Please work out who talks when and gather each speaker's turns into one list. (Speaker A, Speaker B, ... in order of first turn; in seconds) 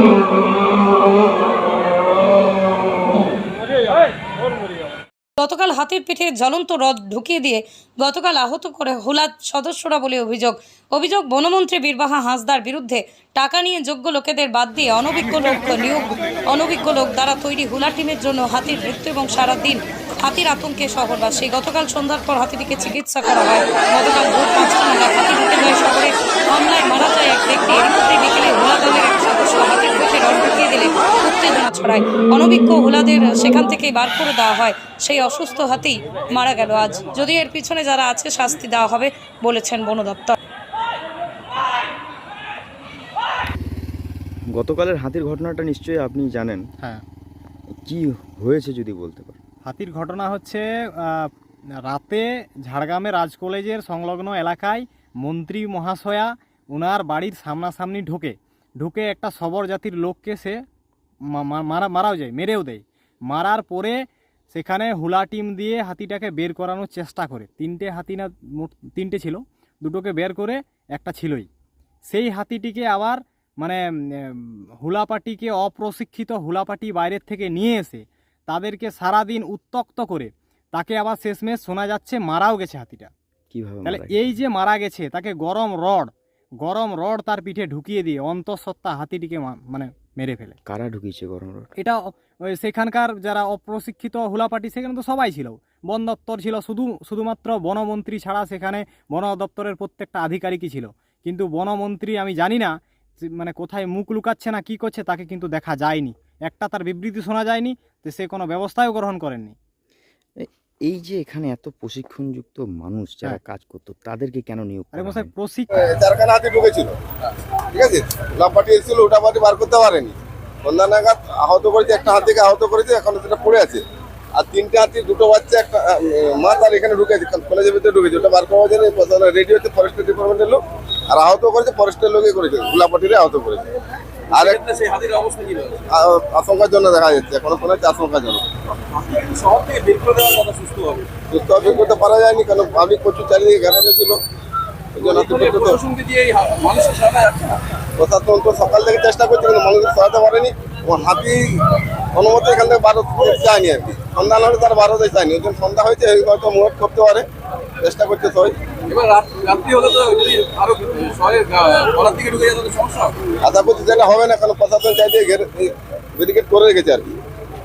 Speaker A: 5.4-40.4
Speaker B: 44.5-46.6, 47.8-49.4, 83.5-84.4, 90.7-91.7, 110.4-115.3
Speaker C: 49.6-51.3, 51.9-60.6, 61.3-64.0, 64.5-71.5, 72.1-83.1, 83.8-86.1, 86.6-90.6, 91.8-109.5, 114.9-115.7
Speaker D: 115.9-116.9, 117.7-123.8, 124.3-130.6, 131.1-133.6, 135.9-138.4, 141.3-144.2, 144.9-145.8, 148.0-151.4, 152.1-157.2, 157.8-158.6, 163.4-167.1
Speaker E: 134.6-135.8, 138.9-141.1, 145.0-147.6, 158.9-163.2